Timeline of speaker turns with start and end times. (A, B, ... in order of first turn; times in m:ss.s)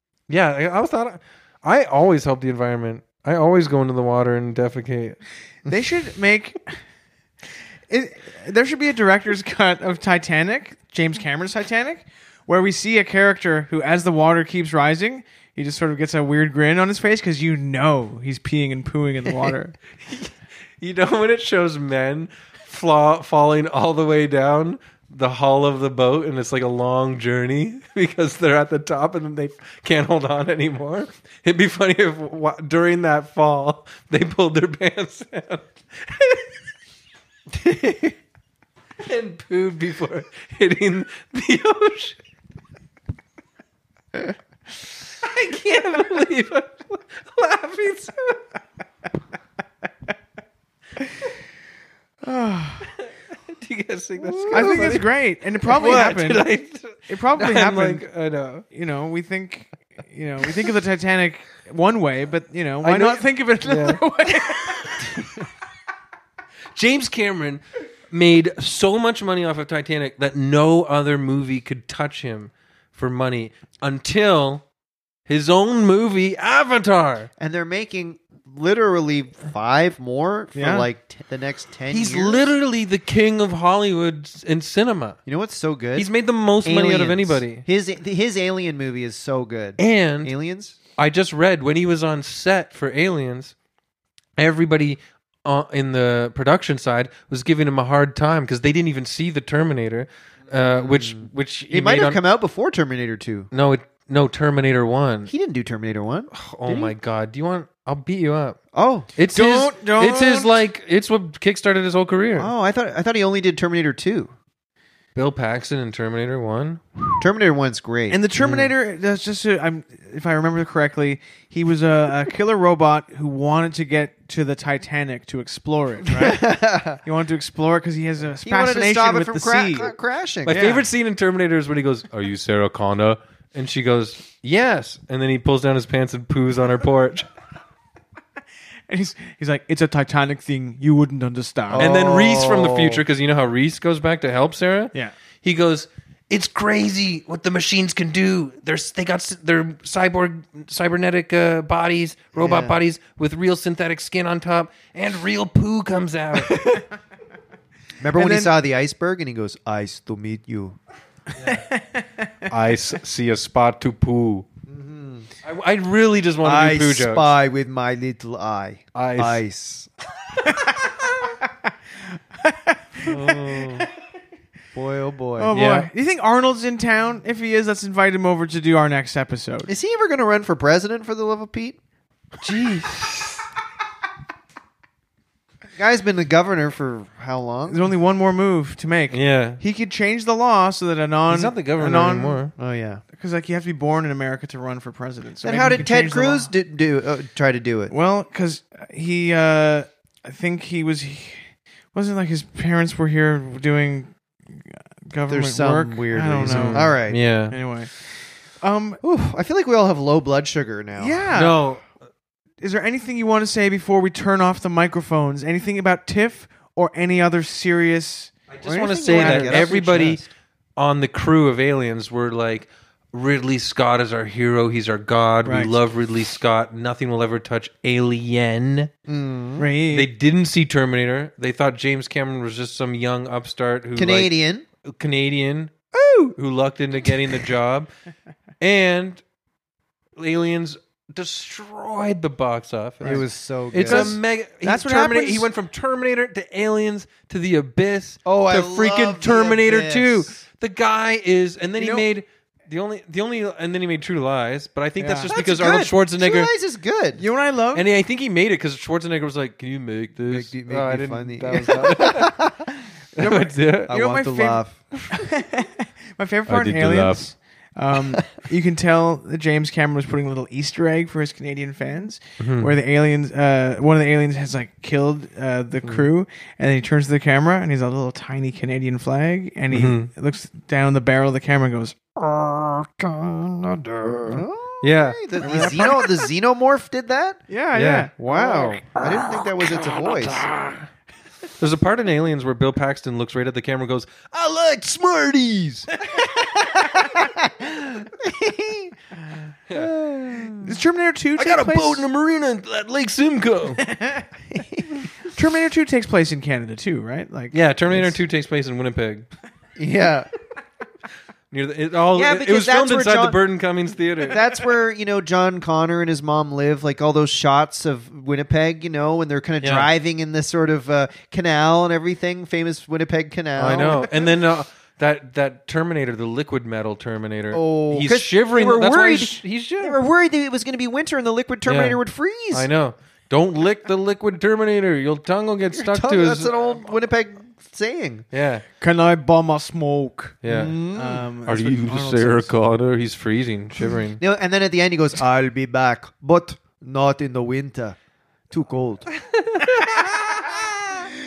0:00.3-0:05.2 A
0:05.7-0:06.8 B
0:07.9-0:19.8 B
0:20.1-0:36.5 A
0:37.6-0:38.1 A
0:39.0-0:42.2 A
0:45.2-0:48.4 A
0:52.2-0:52.9 B
0:53.5-0:55.1 A
0:54.2-0:55.0 C
0:54.5-0:56.5 B
0:55.6-0:58.6 A
0:57.1-0:58.0 B
0:58.7-1:05.1 B
1:02.8-1:04.0 A
1:06.8-1:14.6 A
1:15.3-1:17.3 A
1:17.4-1:22.5 C
1:20.6-1:20.9 B
1:21.9-1:25.2 A
1:25.3-1:26.1 C
1:26.0-1:27.6 A
1:26.6-1:30.8 C
1:29.8-1:30.3 A
1:31.0-1:33.5 A
1:34.4-1:42.2 A
1:40.5-1:43.5 C
1:43.5-1:45.3 A
1:45.3-1:47.0 C
1:46.3-1:48.6 A
1:48.7-1:49.1 C
1:49.2-1:52.5 A
1:49.3-1:50.6 B
1:52.4-1:54.3 C
1:55.2-1:57.1 A
1:57.2-1:58.2 C
1:58.1-2:09.9 B
1:58.4-1:58.7 A
2:06.1-2:07.0 C
2:08.4-2:10.6 C
2:10.4-2:17.3 A
2:10.5-2:10.8 B
2:18.9-2:21.9 B
2:21.8-2:23.0 C
2:21.8-2:36.8 A
2:32.4-2:32.8 C
2:36.4-2:36.8 B
2:38.0-2:40.8 C
2:38.1-2:38.5 B
2:41.4-2:41.6 A
2:41.5-2:42.5 B
2:42.5-2:44.5 A
2:44.7-2:45.3 C
2:45.4-2:47.3 A
2:46.4-2:49.9 C
2:49.0-2:49.4 A
2:52.4-2:53.9 B
2:53.0-2:53.9 A
2:54.7-2:55.5 C
2:55.4-2:59.7 B
2:55.5-2:55.9 A
2:59.7-3:01.8 C
3:02.4-3:03.4 A
3:05.8-3:07.8 C
3:07.7-3:12.4 B
3:09.1-3:09.6 A
3:11.3-3:12.5 A
3:12.6-3:13.0 C
3:13.1-3:16.5 B
3:15.4-3:17.9 C
3:17.9-3:26.9 B
3:25.3-3:27.2 C
3:26.4-3:27.6 A
3:27.5-3:27.9 B
3:28.6-3:29.0 B
3:29.0-3:31.3 C
3:31.0-3:31.6 B
3:31.3-3:31.9 A
3:32.6-3:38.3 B
3:38.5-3:40.2 A
3:38.6-3:40.2 C
3:39.0-3:39.7 B
3:40.8-3:48.9 A
3:45.4-3:45.7 B
3:49.1-3:49.7 C
3:49.6-3:50.1 B
3:49.9-3:54.3 A
3:54.0-3:54.6 C
3:54.8-3:57.9 A
3:56.0-3:56.3 B
3:58.6-3:59.2 A
4:00.2-4:16.5 A
4:03.0-4:04.2 C
4:03.8-4:05.5 B
4:08.2-4:10.4 C
4:11.8-4:12.1 B
4:15.0-4:15.3 B
4:15.3-4:17.2 C
4:17.2-4:17.9 B
4:17.7-4:22.4 A
4:20.3-4:25.0 C
4:23.2-4:23.9 A
4:23.9-4:42.1 B
4:26.5-4:27.3 A
4:32.4-4:32.8 A
4:39.7-4:40.1 A
4:42.2-4:42.9 A
4:43.9-4:45.8 A
4:44.3-4:47.4 C
4:45.4-4:46.0 B
4:47.5-4:48.8 B
4:47.7-4:48.1 A
4:48.2-4:50.5 C
4:50.0-4:50.8 A
4:51.6-4:55.9 A
4:56.2-4:59.0 C
4:56.8-4:57.2 B
4:59.7-5:00.8 C
5:00.6-5:02.0 B
5:01.4-5:03.8 A
5:03.8-5:04.3 B
5:04.5-5:04.9 C
5:05.2-5:08.2 B
5:07.5-5:09.3 A
5:09.8-5:10.3 C
5:11.5-5:14.4 A
5:12.1-5:13.4 C
5:14.3-5:24.2 C
5:19.6-5:19.9 A
5:23.6-5:30.0 A
5:27.5-5:32.7 C
5:31.7-5:32.0 A
5:32.5-5:36.8 A
5:35.7-5:38.3 C
5:38.3-5:38.6 A
5:38.8-5:42.5 B
5:40.4-5:40.8 A
5:40.5-5:41.3 C
5:41.5-5:44.2 A
5:44.2-5:48.0 C
5:48.5-5:49.1 C
5:49.4-5:50.7 A
5:49.6-5:50.0 B